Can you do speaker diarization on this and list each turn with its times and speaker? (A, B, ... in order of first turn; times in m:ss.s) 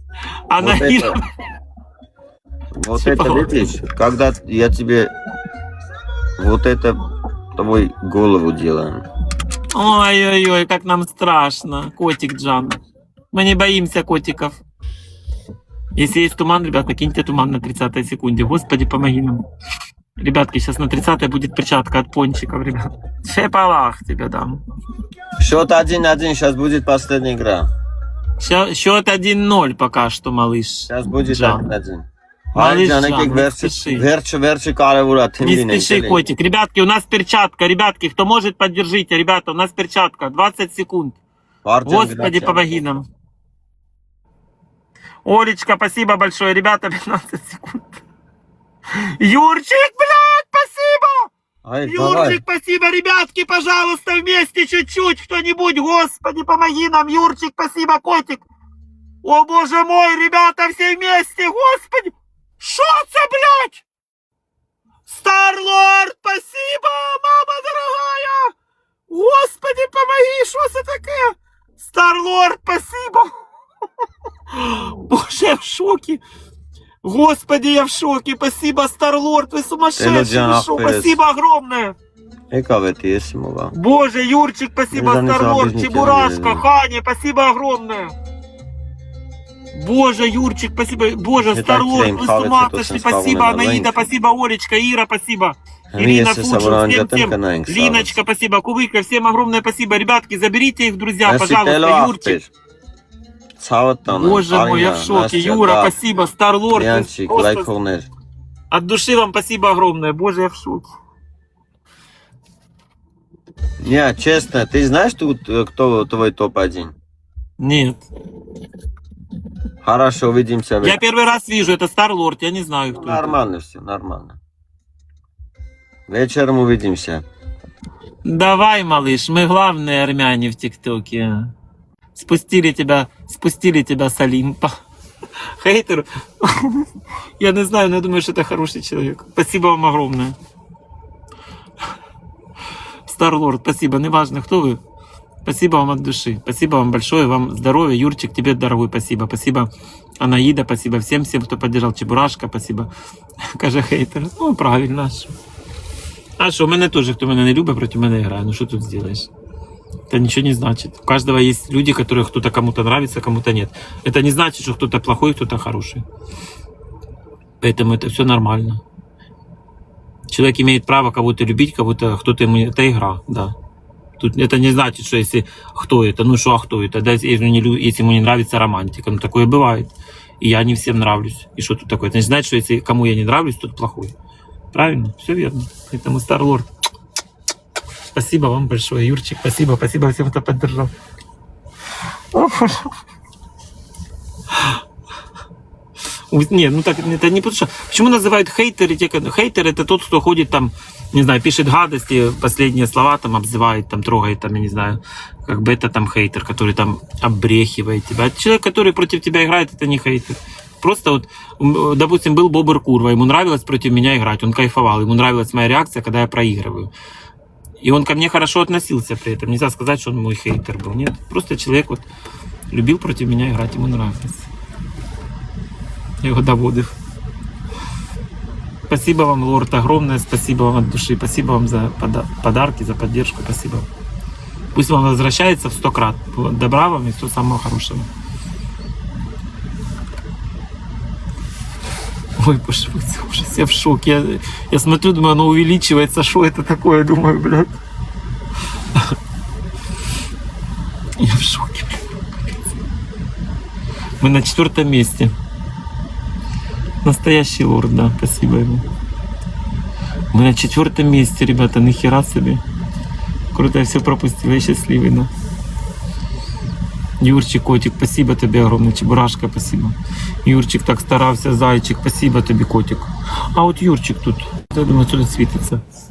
0:00.5-0:01.2 A
0:00.6-0:01.2 B
0:02.7-0:05.1 B
0:03.0-0:03.6 A
0:06.4-0:07.0 B
0:07.6-0:09.0 B
0:09.7-0:12.8 A
0:13.3-0:14.6 A
0:16.0-0:19.4 A
0:20.2-0:24.6 A
0:25.4-0:27.7 B
0:28.4-0:31.7 A
0:30.9-0:36.3 B
0:32.6-0:34.1 A
0:35.4-0:41.2 A
0:41.6-0:42.7 B
0:41.8-0:43.0 A
0:45.2-0:48.0 A
0:49.0-0:51.3 A
0:51.6-0:52.4 B
0:51.9-0:58.4 A
0:59.2-1:03.8 A
1:05.1-1:08.5 A
1:09.1-1:13.3 A
1:14.5-1:16.2 A
1:17.0-1:22.0 A
1:20.0-1:21.2 B
1:22.5-1:23.7 B
1:23.7-1:28.1 A
1:24.9-1:26.6 B
1:29.7-1:42.4 A
1:31.4-1:33.9 B
1:35.9-1:38.2 B
1:41.2-1:42.5 B
1:43.6-1:45.9 B
1:44.1-1:47.7 A
1:46.7-1:48.1 B
1:48.7-1:50.9 A
1:53.8-1:57.0 B
1:57.6-1:58.0 A
1:59.8-2:01.0 B
2:00.8-2:03.4 A
2:03.0-2:04.4 B
2:06.1-2:07.2 B
2:08.2-2:11.5 A
2:12.2-2:14.7 A
2:15.6-2:16.9 A
2:17.4-2:20.4 A
2:23.1-2:24.8 A
2:25.4-2:29.7 A
2:30.2-2:32.9 A
2:33.5-2:35.3 A
2:36.4-2:39.3 A
2:40.1-2:46.0 A
2:47.6-2:48.8 A
2:50.3-2:53.5 A
2:54.2-3:04.1 A
3:04.7-3:06.7 A
3:08.1-3:10.9 A
3:12.3-3:12.9 A
3:14.5-3:14.8 A
3:16.3-3:36.9 A
3:37.8-3:42.0 A
3:42.7-3:44.5 A
3:46.2-3:46.9 A
3:48.9-3:53.9 A
3:54.7-3:58.1 A
4:02.4-4:07.8 A
4:11.2-4:12.1 A
4:14.2-4:15.3 A
4:17.0-4:18.8 A
4:20.3-4:22.6 A
4:23.5-4:25.3 A
4:27.2-4:35.8 A